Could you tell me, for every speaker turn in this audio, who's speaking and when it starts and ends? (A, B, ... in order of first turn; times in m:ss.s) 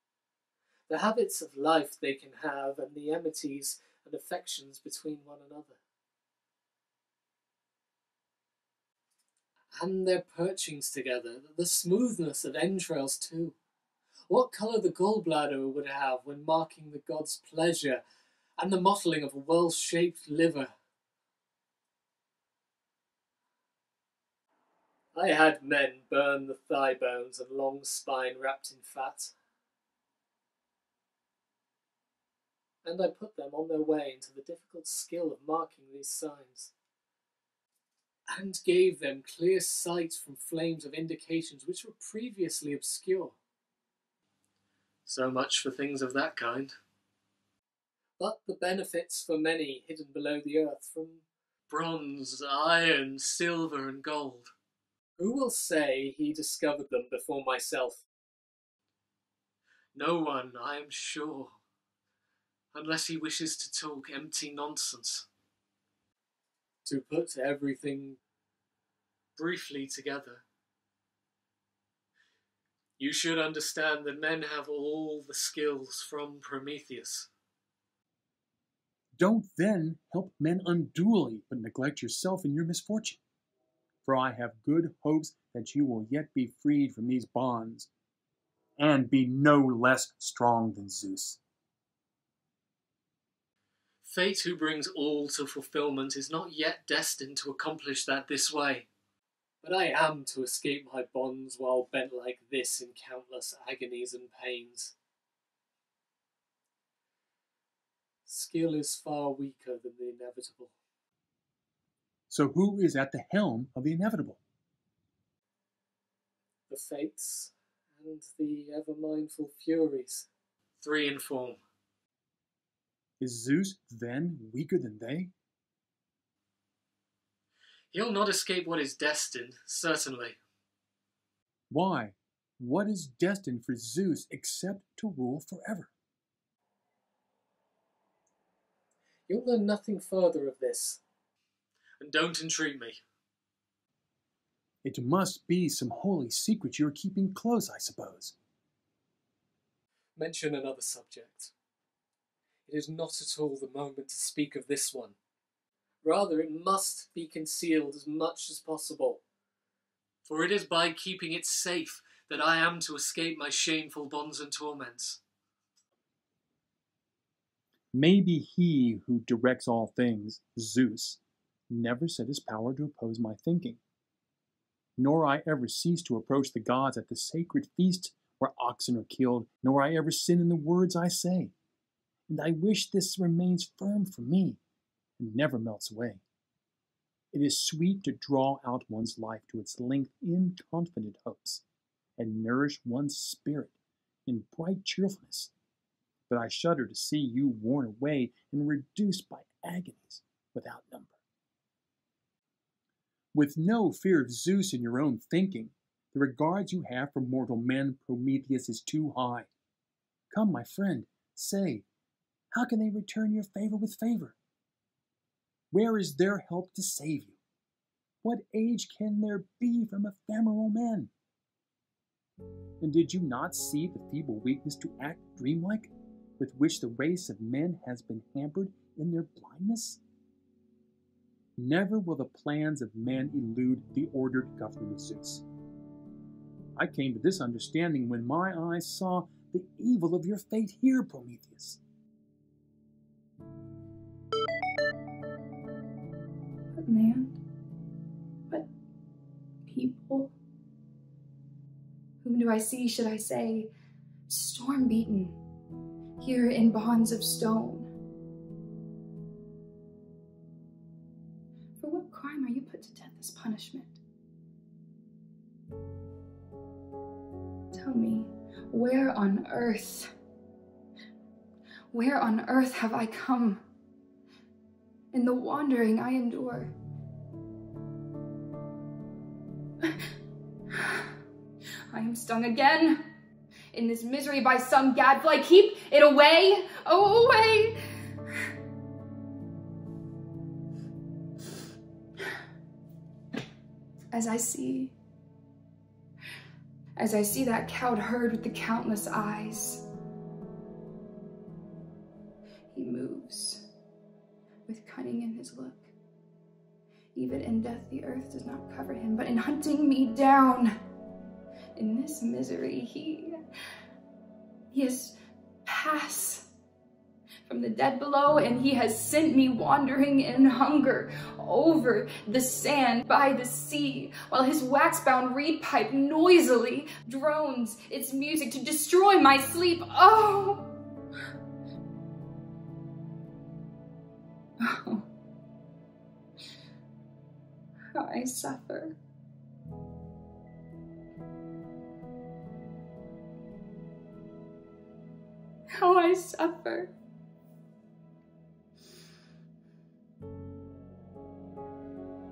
0:00.9-0:05.8 A
0:09.7-0:13.5 A
0:14.3-0:18.0 A
0:18.6-0:20.7 A
0:25.1-0:29.3 A
0:32.8-0:36.7 A
0:38.3-0:43.4 A
0:45.0-0:46.8 A
0:48.2-0:54.5 A
0:55.2-0:58.0 A
0:59.9-1:01.6 A
1:02.7-1:05.2 A
1:06.8-1:08.2 A
1:09.4-1:10.4 A
1:13.0-1:17.3 A
1:19.2-1:23.2 B
1:24.0-1:27.9 B
1:28.8-1:31.4 B
1:34.0-1:38.9 A
1:39.6-1:44.9 A
1:48.3-1:50.7 A
1:52.3-1:54.4 B
1:56.7-2:00.3 A
2:00.8-2:01.6 A
2:03.2-2:05.3 B
2:07.9-2:10.4 A
2:11.7-2:15.9 B
2:19.3-2:21.0 A
2:22.0-2:23.0 A
2:24.8-2:28.3 B
2:30.2-2:31.5 A
2:32.7-2:35.2 A
2:36.0-2:39.2 A
2:40.2-2:45.2 A
2:47.9-2:51.2 B
2:51.7-2:53.8 B
2:55.0-3:01.5 B
3:02.3-3:04.6 B
3:05.2-3:06.2 B
3:07.3-3:11.6 B
3:12.2-3:13.7 B
3:14.3-3:15.5 B
3:16.3-3:21.2 B
3:23.3-3:29.5 B
3:30.3-3:31.8 B
3:32.5-3:34.3 B
3:35.7-3:37.4 B
3:38.2-3:41.1 B
3:42.8-3:50.0 B
3:51.6-3:55.4 B
3:56.8-4:01.8 B
4:06.8-4:07.3 C
4:09.7-4:10.3 C
4:12.2-4:13.7 C
4:14.3-4:15.4 C
4:16.2-4:17.9 C
4:21.8-4:24.0 C
4:27.7-4:30.1 C
4:31.9-4:33.6 C
4:35.1-4:36.7 C
4:40.7-4:41.1 C
4:41.9-4:43.0 C
4:43.7-4:47.8 C
4:54.1-4:54.9 C
4:57.0-4:59.8 C
5:02.7-5:03.6 C
5:04.7-5:05.9 C
5:07.1-5:10.7 C
5:11.8-5:13.4 C
5:14.7-5:16.5 C
5:17.5-5:30.7 C
5:34.6-5:35.0 C
5:37.9-5:39.0 C
5:45.8-5:46.9 C